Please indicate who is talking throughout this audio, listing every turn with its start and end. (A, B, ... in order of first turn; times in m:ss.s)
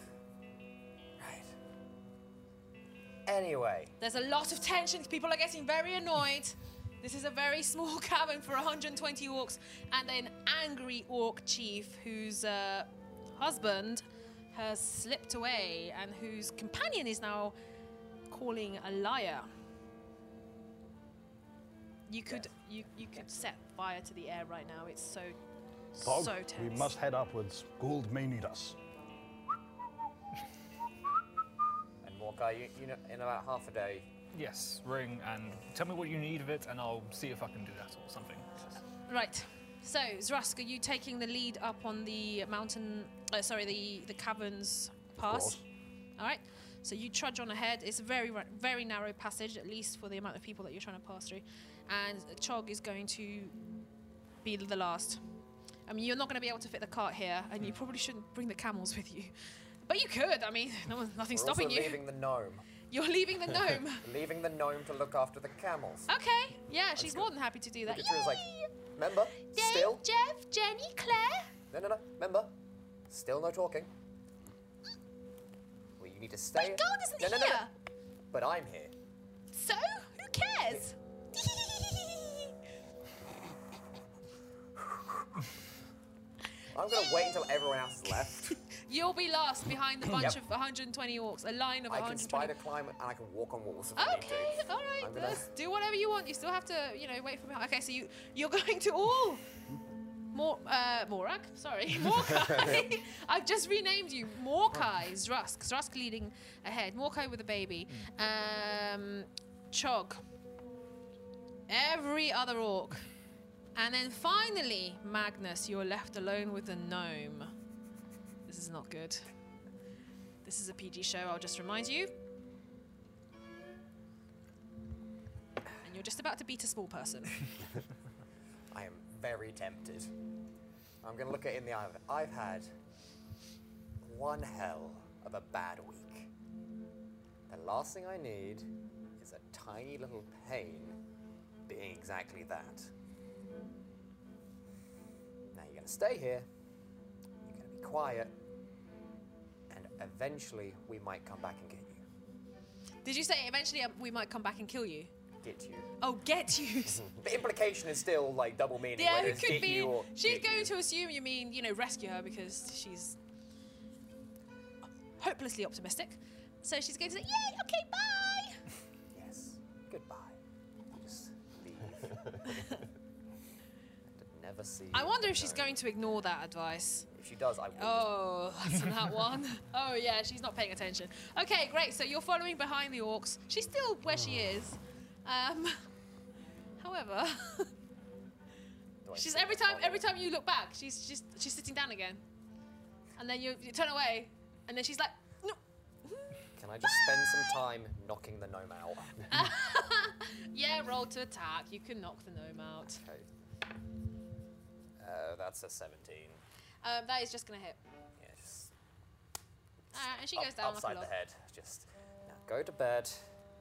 0:01.2-0:01.6 A
0:03.3-0:04.0 A
0:04.0-0:17.6 B
0:18.3-0:19.5 B
0:22.1-0:25.4 B
0:26.0-0:27.0 B
0:26.0-0:28.8 C
0:32.0-0:34.0 A
0:34.3-0:38.7 D
0:39.1-0:45.6 B
0:45.2-0:45.6 C
0:46.2-0:53.6 B
0:54.4-0:55.2 B
0:55.9-0:59.3 B
0:59.9-1:02.0 B
1:01.3-1:02.7 A
1:02.9-1:04.0 B
1:04.0-1:06.1 A
1:06.1-1:08.8 B
1:07.0-1:07.3 A
1:07.9-1:10.0 A
1:09.4-1:11.5 B
1:11.7-1:12.5 A
1:13.1-1:13.9 A
1:16.0-1:17.7 A
1:16.6-1:17.7 B
1:18.3-1:18.9 A
1:19.5-1:22.5 B
1:24.9-1:25.1 A
1:26.7-1:28.6 A
1:26.9-1:27.3 B
1:28.7-1:32.5 B
1:30.1-1:30.4 A
1:31.9-1:35.5 A
1:34.0-1:39.4 B
1:40.3-1:50.2 B
1:51.7-1:53.0 B
1:53.8-1:57.5 B
1:58.5-1:59.3 B
2:00.4-2:02.1 B
2:05.8-2:07.5 B
2:08.7-2:10.1 A
2:11.0-2:12.7 A
2:14.0-2:16.3 A
2:17.5-2:21.0 A
2:21.7-2:22.9 A
2:25.5-2:26.5 A
2:27.5-2:28.3 A
2:29.7-2:32.0 A
2:33.0-2:35.1 B
2:35.4-2:35.9 A
2:36.0-2:37.1 B
2:37.0-2:40.7 A
2:39.0-2:43.2 B
2:45.2-2:48.6 B
2:49.1-2:50.4 A
2:51.0-2:52.8 A
2:54.1-2:55.7 A
2:54.9-2:57.1 B
2:57.1-2:58.1 A
2:57.8-3:05.9 B
3:06.8-3:07.7 B
3:09.0-3:10.0 A
3:09.1-3:12.2 B
3:13.2-3:17.5 B
3:16.6-3:19.3 A
3:19.3-3:23.0 B
3:22.9-3:23.3 A
3:25.0-3:26.4 A
3:26.8-3:27.8 B
3:28.2-3:28.7 A
3:29.9-3:31.1 B
3:30.2-3:33.3 A